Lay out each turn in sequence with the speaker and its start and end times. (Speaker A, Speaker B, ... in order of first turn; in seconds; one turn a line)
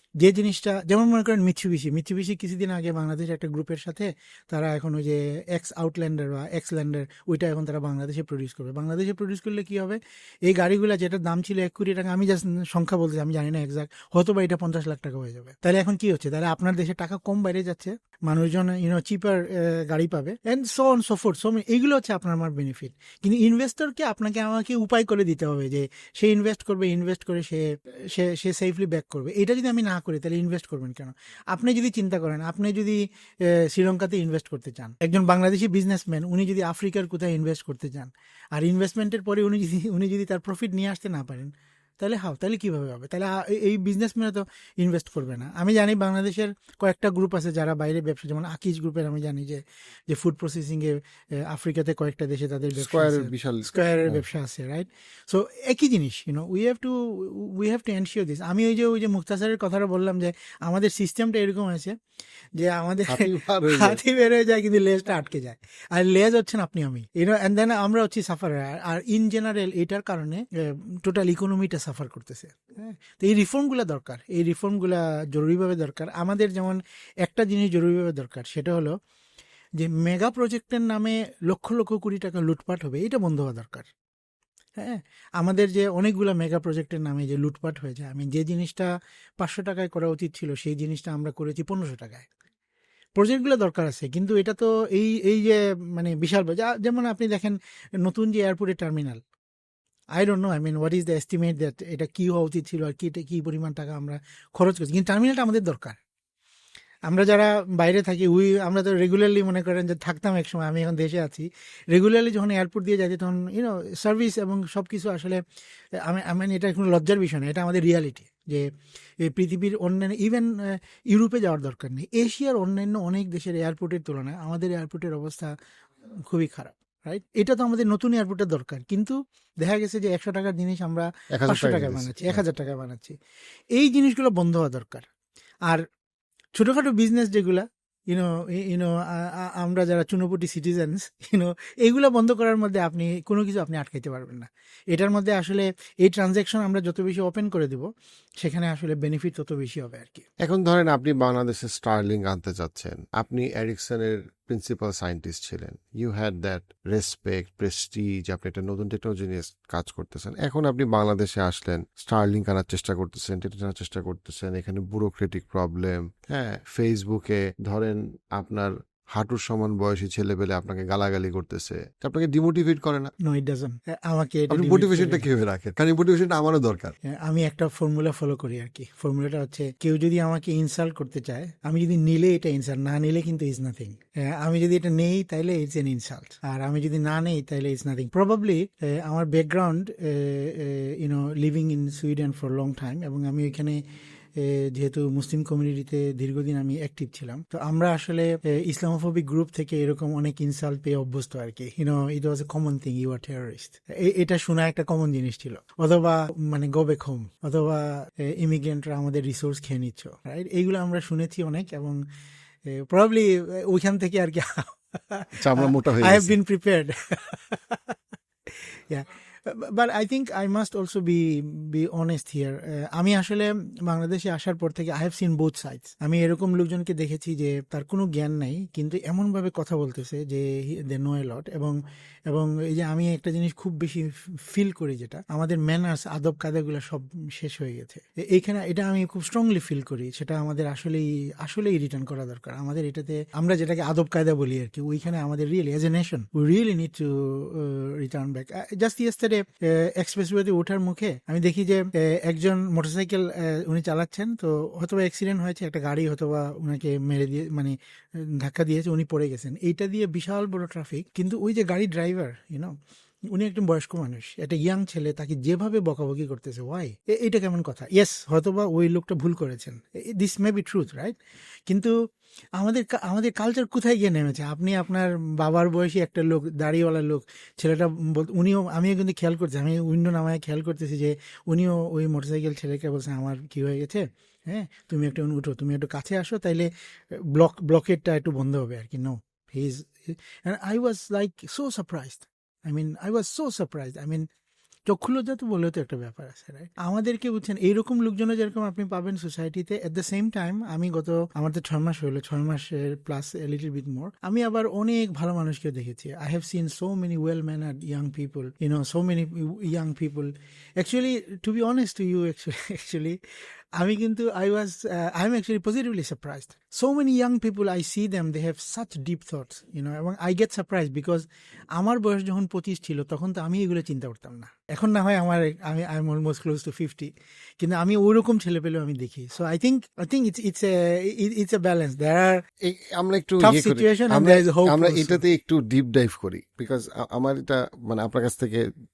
Speaker A: 0.2-62.0
Speaker B: 52.7-54.2
Speaker A: 62.6-78.9
Speaker B: 63.1-64.0
Speaker A: 79.8-83.9
Speaker A: 84.8-92.3
Speaker A: 93.1-99.2
Speaker A: 100.2-106.0
Speaker A: 107.1-115.4
Speaker A: 116.0-118.7
Speaker A: 119.2-125.5
Speaker A: 126.3-133.2
Speaker B: 131.3-132.4
Speaker A: 133.8-135.1
Speaker A: 136.5-147.9
Speaker A: 148.4-150.2
Speaker B: 150.4-173.1
Speaker A: 173.2-175.3
Speaker B: 174.5-176.9
Speaker A: 177.0-193.8
Speaker A: 194.4-212.0
Speaker A: 212.6-231.8
Speaker B: 215.4-216.3
Speaker A: 232.3-262.7
Speaker A: 263.3-271.2
Speaker A: 271.7-271.9
Speaker A: 272.6-294.2
Speaker A: 294.9-313.2
Speaker A: 313.8-332.4
Speaker B: 332.6-338.6
Speaker A: 333.4-335.2